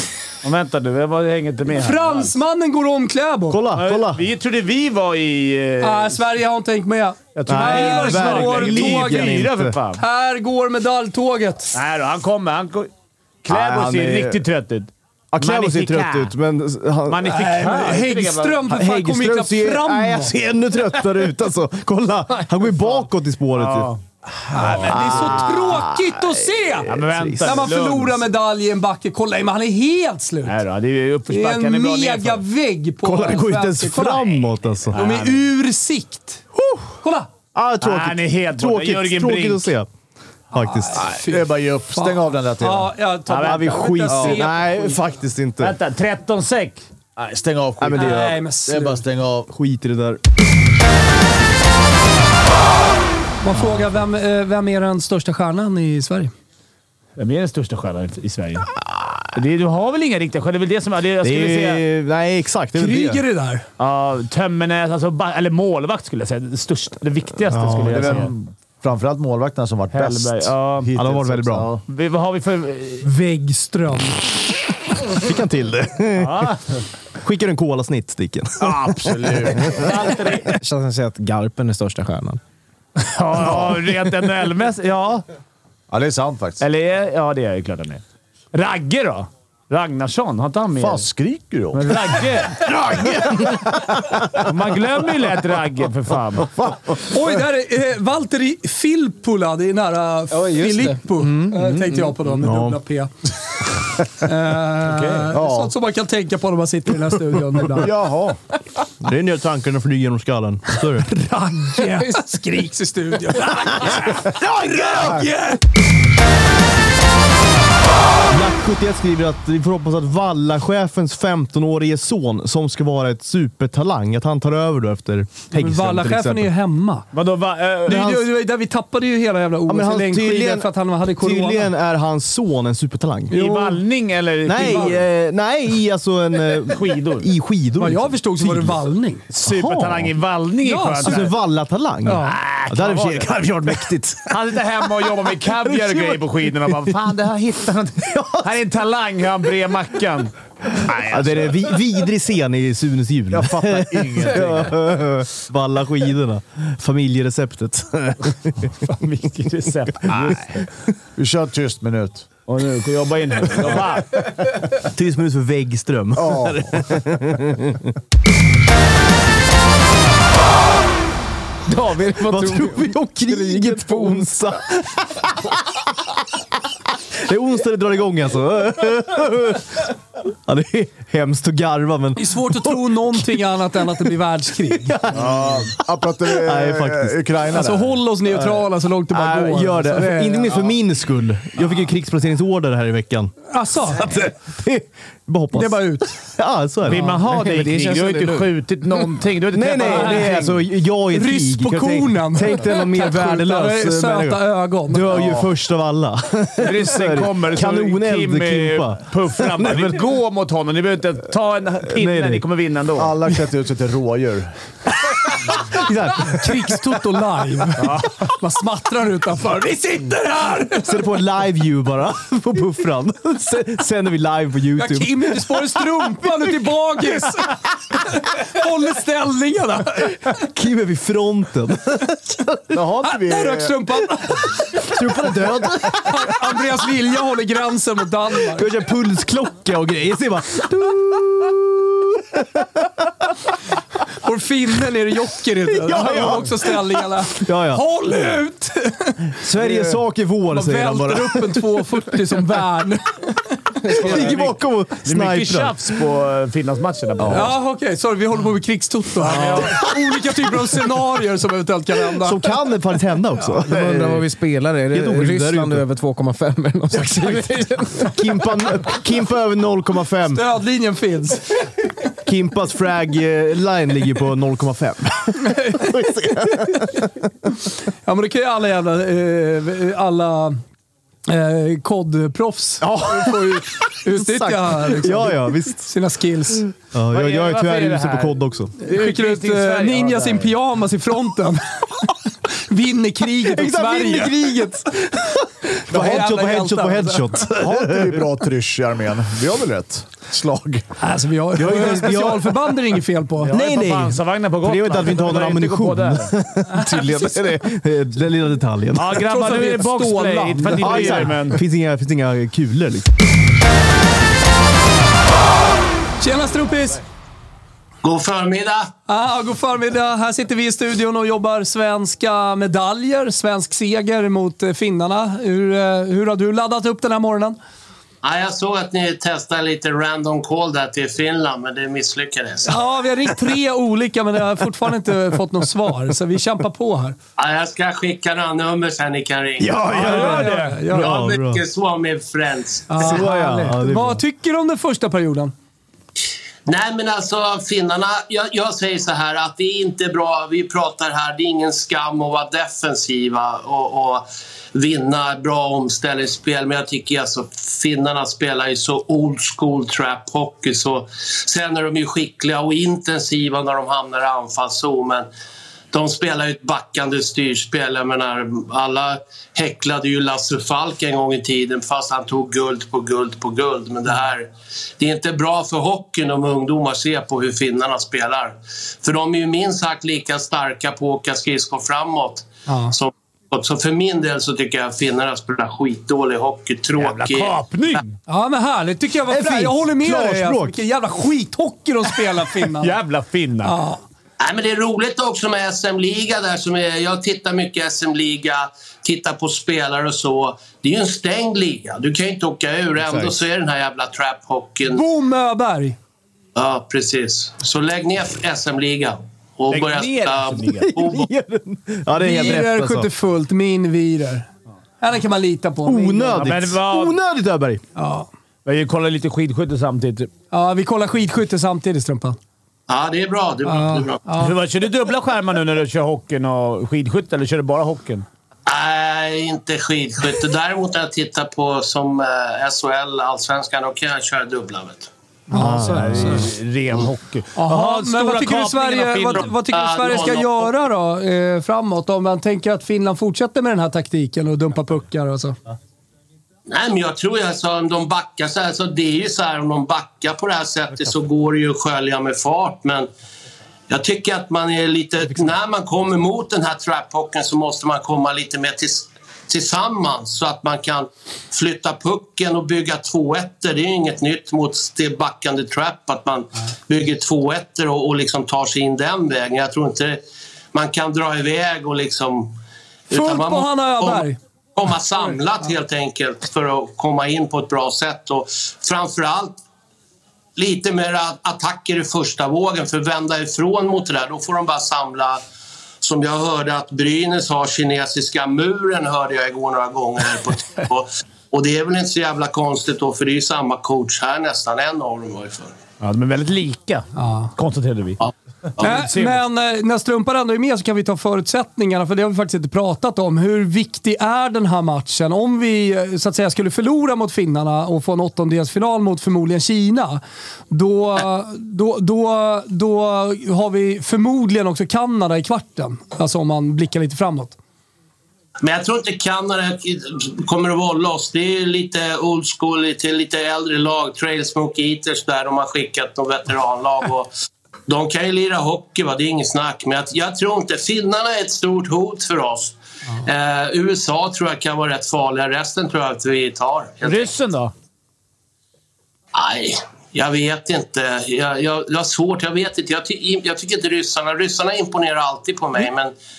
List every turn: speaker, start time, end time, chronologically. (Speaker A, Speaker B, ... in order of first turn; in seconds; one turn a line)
Speaker A: 0.4-2.4
Speaker B: 1.7-3.6
Speaker C: 3.5-4.2
Speaker A: 3.7-6.2
Speaker B: 5.8-9.4
Speaker A: 7.3-10.0
Speaker C: 7.5-9.8
Speaker B: 10.0-11.8
Speaker A: 11.7-12.9
Speaker A: 13.4-16.3
Speaker C: 13.5-14.4
Speaker C: 15.3-17.9
Speaker A: 17.1-18.7
Speaker B: 17.3-20.3
Speaker C: 18.7-23.9
Speaker A: 23.5-24.0
Speaker B: 24.5-30.6
Speaker A: 24.5-25.4
Speaker C: 24.5-27.6
Speaker A: 26.9-28.2
Speaker A: 30.4-32.4
Speaker B: 31.3-34.3
Speaker C: 33.0-35.0
Speaker A: 34.9-35.4
Speaker B: 34.9-36.4
Speaker C: 36.5-36.9
Speaker B: 37.0-37.3
Speaker C: 37.5-39.9
Speaker A: 37.8-39.7
Speaker C: 40.5-41.0
Speaker B: 40.5-44.7
Speaker D: 41.0-42.9
Speaker A: 43.3-44.8
Speaker C: 43.4-45.8
Speaker A: 45.6-46.8
Speaker D: 47.1-49.5
Speaker C: 47.8-48.4
Speaker B: 48.0-49.0
Speaker C: 49.5-50.2
Speaker B: 53.4-56.3
Speaker C: 53.6-53.9
Speaker A: 57.2-58.7
Speaker A: 59.3-61.8
Speaker C: 61.2-63.2
Speaker B: 62.8-63.6
Speaker A: 63.8-68.3
Speaker C: 67.5-68.3
Speaker D: 67.7-71.8
Speaker A: 69.9-70.9
Speaker C: 71.0-71.7
Speaker A: 71.9-73.0
Speaker B: 73.0-74.2
Speaker C: 75.1-76.5
Speaker A: 76.2-76.8
Speaker C: 77.2-79.0
Speaker A: 78.6-80.5
Speaker D: 79.1-79.6
Speaker C: 79.6-80.1
Speaker E: 80.5-82.4
Speaker A: 83.0-85.2
Speaker D: 83.4-83.8
Speaker D: 85.9-86.6
Speaker A: 86.6-88.0
Speaker A: 88.5-91.1
Speaker D: 90.8-92.0
Speaker A: 91.7-93.5
Speaker C: 92.9-94.5
Speaker A: 94.3-96.5
Speaker B: 97.1-103.3
Speaker E: 100.4-101.0
Speaker A: 101.5-101.9
Speaker C: 102.4-102.8
Speaker B: 104.2-107.9
Speaker A: 104.9-105.2
Speaker D: 105.3-105.7
Speaker D: 107.8-108.4
Speaker C: 109.0-111.1
Speaker B: 111.0-115.6
Speaker C: 118.3-126.5
Speaker B: 125.5-127.1
Speaker A: 127.1-128.1
Speaker B: 127.8-131.7
Speaker C: 127.9-128.2
Speaker C: 129.7-133.4
Speaker B: 133.3-133.8
Speaker A: 133.3-135.0
Speaker C: 134.4-138.8
Speaker B: 134.6-134.9
Speaker A: 136.7-137.3
Speaker B: 137.8-139.2
Speaker A: 139.3-141.3
Speaker C: 139.4-140.2
Speaker B: 140.6-141.2
Speaker C: 141.0-144.7
Speaker B: 142.0-142.4
Speaker A: 142.2-151.7
Speaker C: 145.7-147.0
Speaker C: 148.0-148.5
Speaker C: 150.9-158.9
Speaker D: 153.3-154.7
Speaker A: 153.6-154.7
Speaker A: 158.9-160.6
Speaker C: 160.1-160.4
Speaker D: 161.2-162.3
Speaker A: 162.5-164.2
Speaker C: 164.8-167.9
Speaker D: 166.2-166.6
Speaker E: 171.7-172.8
Speaker C: 172.2-175.8
Speaker E: 173.3-174.2
Speaker C: 177.1-184.1
Speaker B: 182.2-185.0
Speaker C: 184.7-187.2
Speaker D: 185.1-188.0
Speaker B: 187.5-190.5
Speaker C: 188.3-197.1
Speaker B: 193.5-194.1
Speaker B: 195.5-196.2
Speaker A: 196.8-200.6
Speaker E: 197.0-198.6
Speaker C: 199.5-210.0
Speaker B: 199.9-200.3
Speaker B: 201.1-205.2
Speaker A: 205.1-205.4
Speaker A: 206.6-213.2
Speaker C: 211.9-212.4
Speaker D: 212.9-214.6
Speaker C: 215.7-216.5
Speaker B: 216.2-221.0
Speaker A: 217.8-218.1
Speaker C: 220.8-226.2
Speaker B: 224.8-230.2
Speaker C: 230.3-232.8
Speaker D: 232.7-233.8
Speaker B: 233.0-234.9
Speaker C: 234.8-236.4
Speaker B: 236.0-238.7
Speaker C: 238.5-243.3
Speaker B: 244.2-254.2
Speaker C: 245.7-248.4
Speaker C: 249.3-251.8
Speaker C: 254.0-255.8
Speaker A: 254.1-257.6
Speaker B: 257.3-262.5
Speaker A: 259.2-259.8
Speaker C: 262.2-264.3
Speaker E: 263.6-268.1
Speaker C: 264.9-265.8
Speaker C: 266.9-267.5
Speaker C: 268.0-270.4
Speaker B: 270.3-271.6
Speaker C: 272.2-277.1
Speaker B: 278.0-280.6
Speaker B: 281.3-286.6
Speaker C: 282.8-285.9
Speaker C: 286.6-288.7
Speaker A: 287.1-288.4
Speaker B: 288.8-294.6
Speaker A: 288.9-290.5
Speaker C: 293.4-298.3
Speaker B: 295.9-297.4
Speaker D: 297.5-300.9
Speaker B: 301.0-303.5
Speaker C: 301.6-309.3
Speaker A: 303.4-306.3
Speaker B: 306.7-307.3
Speaker D: 306.9-307.4
Speaker A: 308.9-311.6
Speaker B: 309.3-311.4
Speaker C: 310.8-313.1
Speaker B: 316.2-317.0
Speaker F: 318.0-318.9
Speaker B: 319.1-327.6
Speaker F: 328.2-332.8
Speaker B: 332.7-337.1
Speaker F: 337.4-339.8
Speaker C: 339.6-341.6
Speaker A: 339.9-340.8
Speaker B: 340.0-341.1
Speaker F: 341.0-343.2
Speaker B: 342.9-345.5
Speaker C: 343.0-344.2
Speaker F: 346.6-365.3
Speaker F: 365.9-387.6
Speaker B: 382.7-382.9
Speaker A: 387.0-388.1
Speaker B: 388.3-392.9
Speaker C: 389.3-390.8
Speaker A: 392.8-393.7
Speaker B: 393.6-394.0
Speaker F: 394.4-405.0
Speaker C: 403.0-403.3
Speaker B: 404.9-406.0
Speaker F: 406.5-411.3
Speaker A: 409.7-410.9
Speaker C: 410.8-413.1
Speaker B: 412.2-414.5
Speaker B: 415.0-416.4
Speaker C: 415.8-417.8
Speaker A: 416.4-417.1
Speaker B: 417.9-418.3
Speaker A: 418.6-420.3
Speaker B: 420.5-422.4
Speaker F: 422.9-424.2
Speaker B: 423.6-424.5
Speaker A: 424.4-428.2
Speaker F: 428.6-435.1
Speaker B: 435.5-436.5
Speaker C: 435.5-436.5
Speaker A: 435.8-439.5
Speaker B: 437.6-445.6
Speaker F: 439.6-440.5
Speaker F: 446.7-453.1
Speaker F: 453.9-470.2
Speaker F: 470.7-472.5
Speaker F: 473.1-479.6
Speaker B: 473.1-474.4
Speaker F: 480.6-485.4
Speaker F: 486.0-495.8
Speaker A: 496.0-498.2
Speaker B: 497.1-497.5
Speaker F: 498.2-498.9
Speaker A: 498.8-499.4
Speaker B: 498.8-517.5
Speaker F: 518.6-527.3
Speaker F: 527.9-537.4
Speaker A: 537.0-537.7
Speaker F: 539.3-546.1